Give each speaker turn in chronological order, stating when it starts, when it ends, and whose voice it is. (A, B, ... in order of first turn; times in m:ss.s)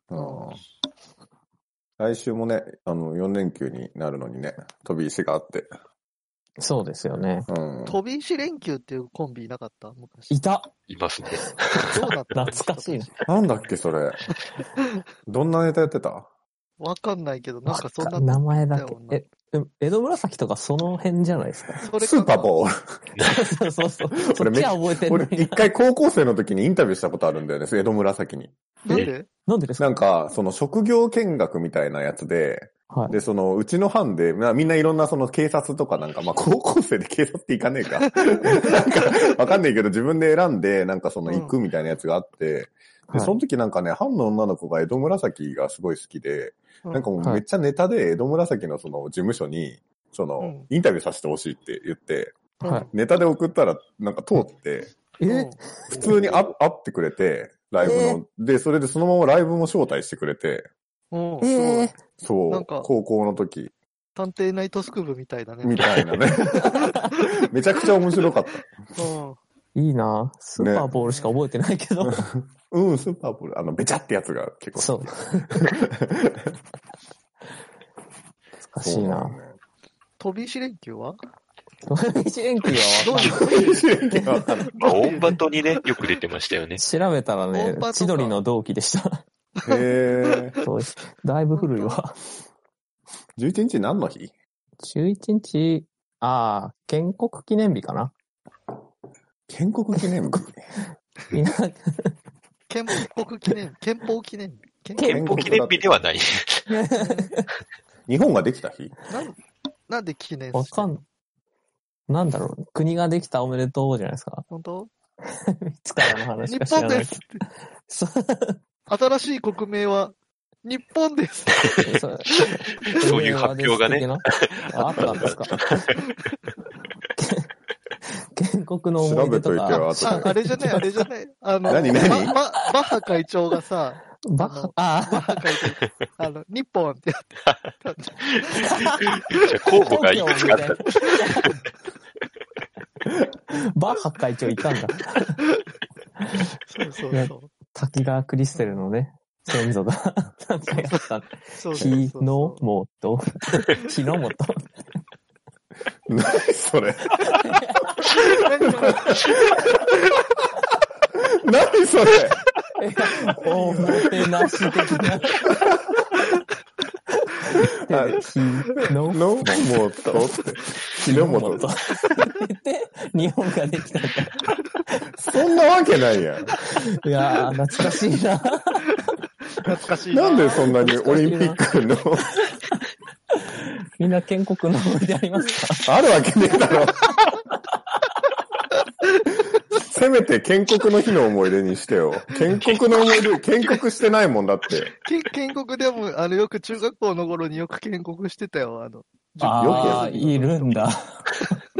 0:00.1-0:00.6 A
0:00.1-0:00.5 B
0:02.0-0:05.7 A
0:06.6-0:07.5 C
0:07.5-0:08.0 A
0:07.8-0:10.4 B
0:10.3-0:10.7 C
0:10.9-0:12.0 D
0:11.9-0:13.2 B
0:12.3-0:13.2 C
0:13.2-0:14.3 A
0:15.3-0:16.3 A
0:16.8-0:19.2 B
0:17.6-0:22.0 C
0:21.8-0:22.4 B
0:22.0-0:23.0 A
0:23.2-0:25.7 C
0:24.1-0:28.5 A
0:28.8-0:29.3 B
0:28.9-0:29.9 C
0:29.8-0:54.9 A
0:32.9-0:33.2 C
0:41.2-0:41.5 B
0:47.2-0:47.4 C
0:50.4-0:50.6 B
0:52.6-0:52.9 B
0:55.2-0:56.2 C
0:55.2-0:55.6 B
0:55.9-1:00.7 A
0:57.8-0:58.2 C
1:01.1-1:01.9 B
1:01.4-1:02.0 C
1:02.0-1:03.7 A
1:02.5-1:02.9 B
1:04.2-1:05.8 B
1:05.6-1:09.0 A
1:06.4-1:07.1 C
1:08.9-1:09.4 B
1:09.7-1:12.2 C
1:10.6-1:10.9 A
1:11.0-1:11.3 B
1:12.0-1:16.6 A
1:14.8-1:15.6 C
1:18.6-1:19.4 C
1:18.8-1:19.6 A
1:20.2-1:21.2 B
1:21.9-1:23.8 C
1:23.0-1:24.2 B
1:23.5-1:24.8 A
1:24.8-1:25.3 B
1:24.8-1:26.8 D
1:26.8-1:29.2 C
1:27.5-1:28.4 B
1:29.6-1:30.6 A
1:29.7-1:30.5 B
1:30.6-1:32.2 C
1:31.5-1:32.0 B
1:33.4-1:34.3 A
1:34.8-1:38.1 C
1:39.5-1:40.7 A
1:41.3-1:42.1 C
1:42.7-1:45.1 B
1:45.0-1:45.6 C
1:45.0-1:46.7 D
1:45.1-1:46.0 A
1:46.7-1:47.5 C
1:48.1-1:48.9 A
1:49.1-1:49.4 B
1:49.9-1:51.0 B
1:50.5-1:51.0 C
1:52.1-1:54.4 C
1:54.5-1:54.9 B
1:55.7-1:57.3 C
1:56.5-1:57.3 B
1:57.9-1:58.6 C
1:58.9-2:01.6 B
2:01.8-2:05.8 C
2:02.4-2:06.0 D
2:07.2-2:07.5 C
2:08.3-2:11.0 C
2:09.0-2:10.4 A
2:10.0-2:17.3 B
2:11.7-2:12.4 A
2:11.8-2:13.2 C
2:14.2-2:15.4 C
2:17.8-2:19.4 B
2:18.3-2:21.6 D
2:18.6-2:19.0 C
2:19.7-2:21.5 C
2:23.5-2:25.4 C
2:26.2-2:34.6 C
2:26.7-2:27.5 B
2:31.6-2:32.6 B
2:36.1-2:40.4 A
2:37.3-2:37.9 C
2:38.2-2:39.1 B
2:41.2-2:42.5 A
2:42.8-2:46.0 C
2:43.2-2:44.2 A
2:45.4-2:45.9 A
2:47.5-2:50.4 C
2:47.8-2:51.7 A
2:50.9-2:54.4 C
2:55.2-2:56.6 A
2:56.7-2:58.9 C
2:59.6-3:02.3 A
2:59.6-3:00.7 B
3:00.6-3:01.6 C
3:03.3-3:05.9 C
3:05.8-3:07.2 A
3:09.7-3:15.0 A
3:12.6-3:13.0 D
3:15.0-3:20.8 B
3:19.4-3:21.5 C
3:19.6-3:20.1 A